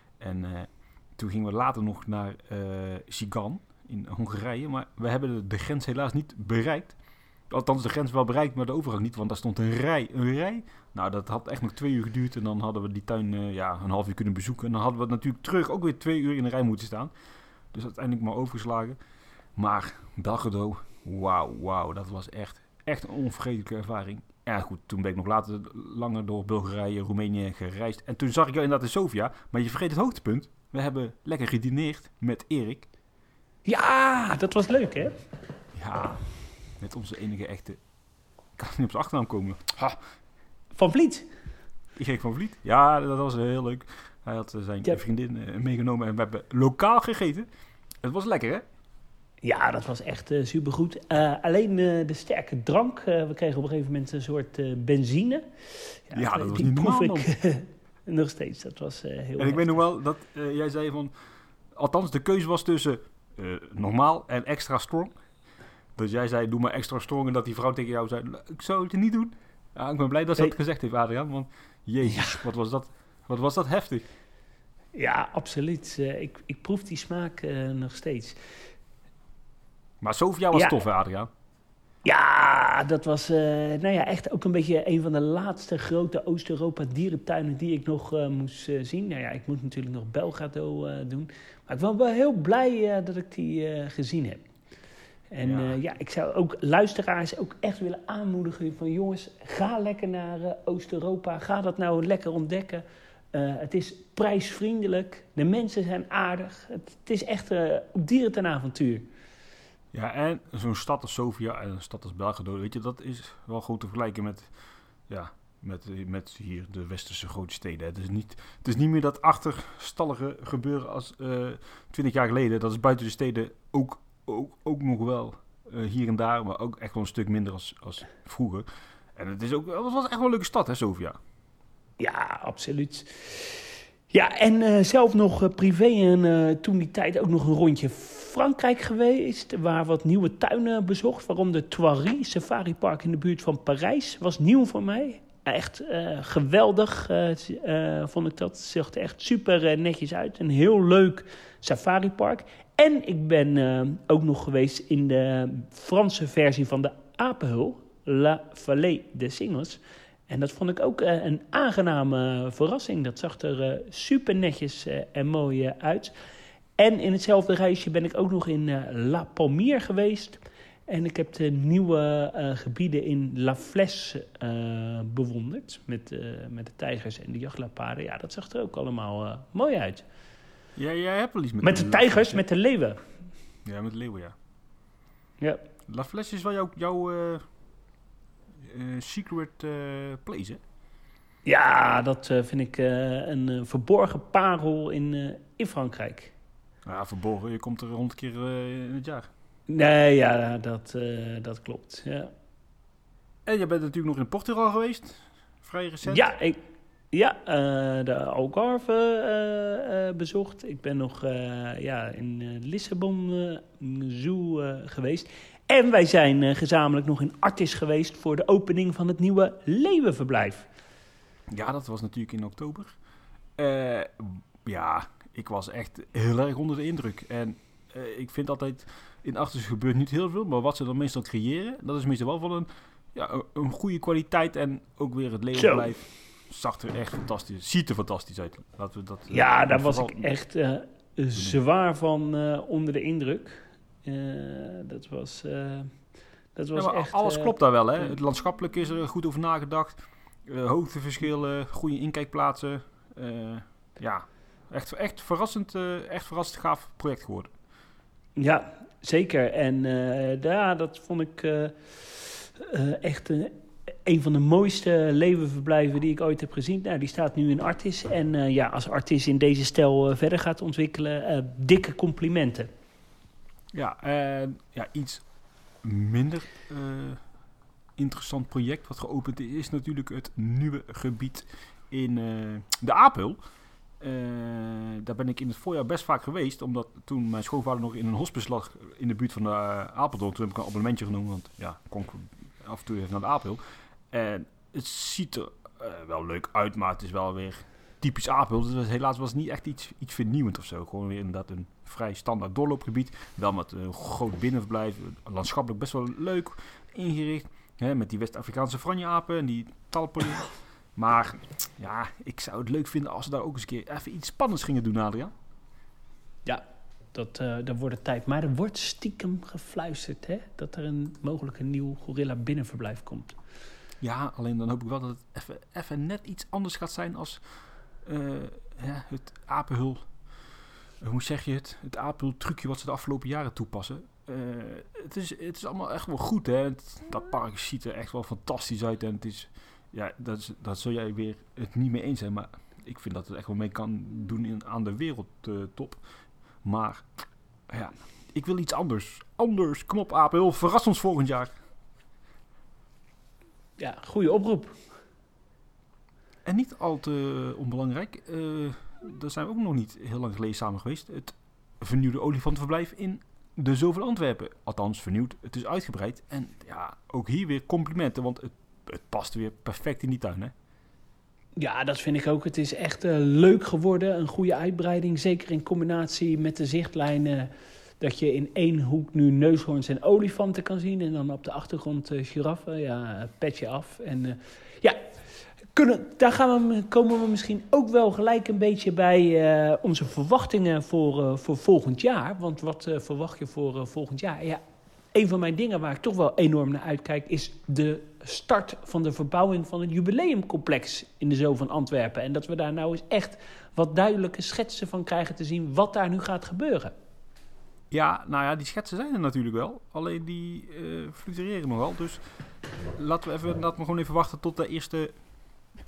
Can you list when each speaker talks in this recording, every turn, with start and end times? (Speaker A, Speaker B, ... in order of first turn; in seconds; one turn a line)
Speaker A: 0.2-7.0
Speaker A: 7.5-17.1
Speaker A: 17.7-19.0
Speaker A: 19.6-32.9
Speaker B: 33.7-35.2
Speaker A: 35.7-36.2
Speaker A: 36.8-37.8
Speaker A: 38.6-40.0
Speaker B: 40.8-41.3
Speaker A: 42.0-47.5
Speaker A: 48.0-48.6
Speaker B: 49.4-59.8
Speaker A: 56.1-57.3
Speaker A: 59.4-61.1
Speaker A: 61.8-65.2
Speaker A: 66.0-74.0
Speaker B: 72.0-72.4
Speaker B: 75.0-78.4
Speaker A: 80.0-81.3
Speaker B: 80.5-80.8
Speaker B: 82.0-94.4
Speaker B: 95.3-109.1
Speaker A: 95.4-95.8
Speaker A: 109.9-114.5
Speaker A: 115.1-131.2
Speaker B: 132.0-166.1
Speaker B: 166.8-180.1
Speaker A: 180.8-182.4
Speaker B: 181.6-183.0
Speaker A: 183.7-184.4
Speaker A: 185.9-187.4
Speaker A: 188.6-190.6
Speaker B: 191.4-196.3
Speaker A: 196.8-199.3
Speaker B: 199.7-202.3
Speaker A: 203.5-206.3
Speaker B: 206.1-206.6
Speaker B: 207.1-220.7
Speaker A: 221.5-222.9
Speaker A: 223.6-240.3
Speaker B: 235.6-235.9
Speaker B: 239.3-245.9
Speaker B: 246.6-248.1
Speaker A: 246.8-257.5
Speaker B: 258.4-272.7
Speaker A: 273.7-275.2
Speaker A: 275.8-277.2
Speaker A: 278.0-283.4
Speaker A: 284.0-293.6
Speaker A: 294.1-315.3
Speaker B: 316.5-323.4
Speaker A: 324.0-327.4
Speaker A: 328.1-330.1
Speaker A: 331.0-346.0
Speaker A: 346.6-347.1
Speaker A: 347.7-351.5
Speaker B: 353.8-354.8
Speaker A: 356.4-370.5
Speaker B: 371.6-377.5
Speaker B: 378.0-385.0
Speaker B: 385.7-394.6
Speaker B: 395.1-406.9
Speaker A: 407.9-412.2
Speaker A: 412.9-415.1